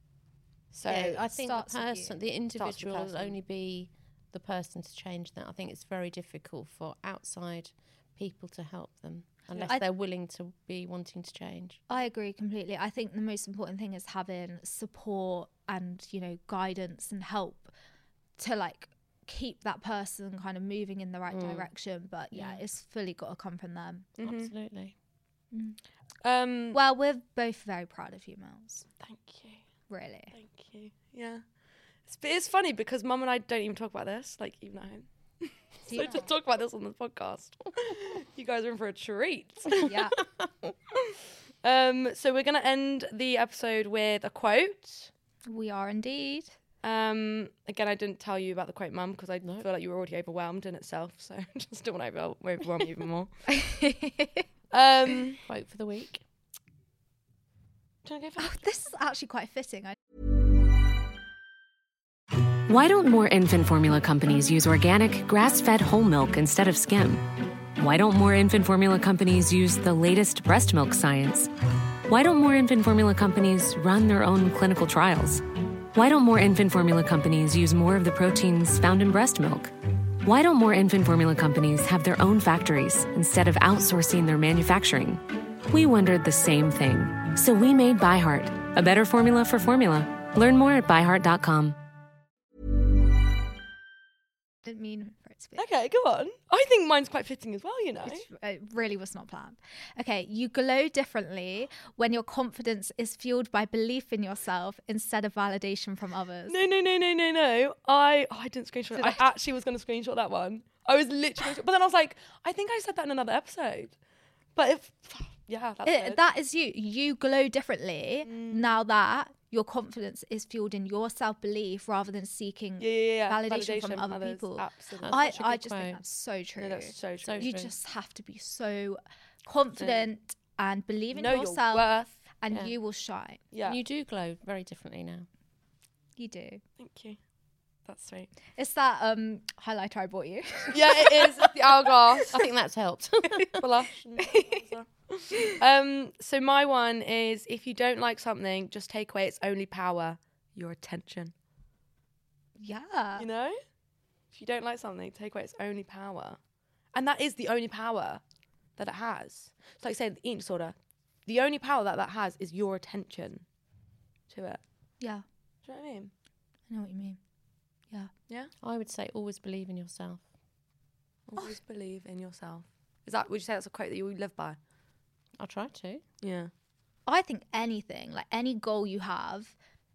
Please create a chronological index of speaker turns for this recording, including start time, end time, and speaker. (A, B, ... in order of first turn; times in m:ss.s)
0:00.7-0:11.8 A
0:00.8-0:01.2 B
0:01.2-0:02.2 C
0:02.6-0:03.4 B
0:09.5-0:09.9 C
0:11.9-0:17.7 C
0:18.4-0:24.1 C
0:21.3-0:21.7 A
0:24.2-0:25.0 A
0:24.2-0:24.5 B
0:25.5-0:25.8 C
0:26.2-0:26.8 B
0:26.7-0:28.9 C
0:29.0-0:29.6 B
0:29.9-0:30.3 C
0:30.3-0:31.4 B
0:32.1-0:39.9 B
0:35.9-0:36.3 C
0:39.8-0:40.2 C
0:40.4-0:40.8 A
0:41.0-0:45.1 B
0:45.5-0:46.6 C
0:46.8-0:53.3 B
0:53.5-0:54.5 C
0:54.7-0:55.4 B
0:55.5-0:56.2 A
0:58.0-0:58.6 B
0:58.4-1:00.0 C
1:02.7-1:11.5 D
1:12.1-1:15.4 D
1:15.9-1:19.7 D
1:20.2-1:31.8 D
1:34.6-1:35.6 C
1:35.6-1:38.3 B
1:38.0-1:46.6 C
1:46.5-1:54.0 B
1:48.9-1:49.3 C
1:54.6-1:56.2 B
1:55.9-2:13.4 C
1:58.2-1:58.7 B
2:02.8-2:05.4 B
2:05.0-2:06.0 A
2:06.6-2:07.5 B
2:07.2-2:07.7 A
2:09.8-2:10.1 B
2:11.1-2:12.2 B
2:12.5-2:12.7 A
2:13.5-2:13.8 B
2:13.6-2:15.3 A
2:16.2-2:16.6 C
2:16.8-2:17.2 B
2:17.9-2:18.3 B
2:18.6-2:21.5 C
2:20.7-2:22.5 B
2:22.3-2:23.7 A
2:23.6-2:31.3 B
2:24.2-2:24.6 C
2:32.6-2:33.3 C
2:33.2-2:33.6 B
2:34.3-2:36.4 B
2:36.9-2:38.2 B
2:38.8-2:40.8 B
2:41.3-2:43.4 B
2:44.3-2:44.6 B
2:45.6-2:46.1 B
2:46.7-2:47.2 C
2:48.6-2:50.2 A
2:51.3-2:54.6 B
2:55.4-2:56.0 A
2:56.2-2:56.5 B
2:57.1-2:59.6 C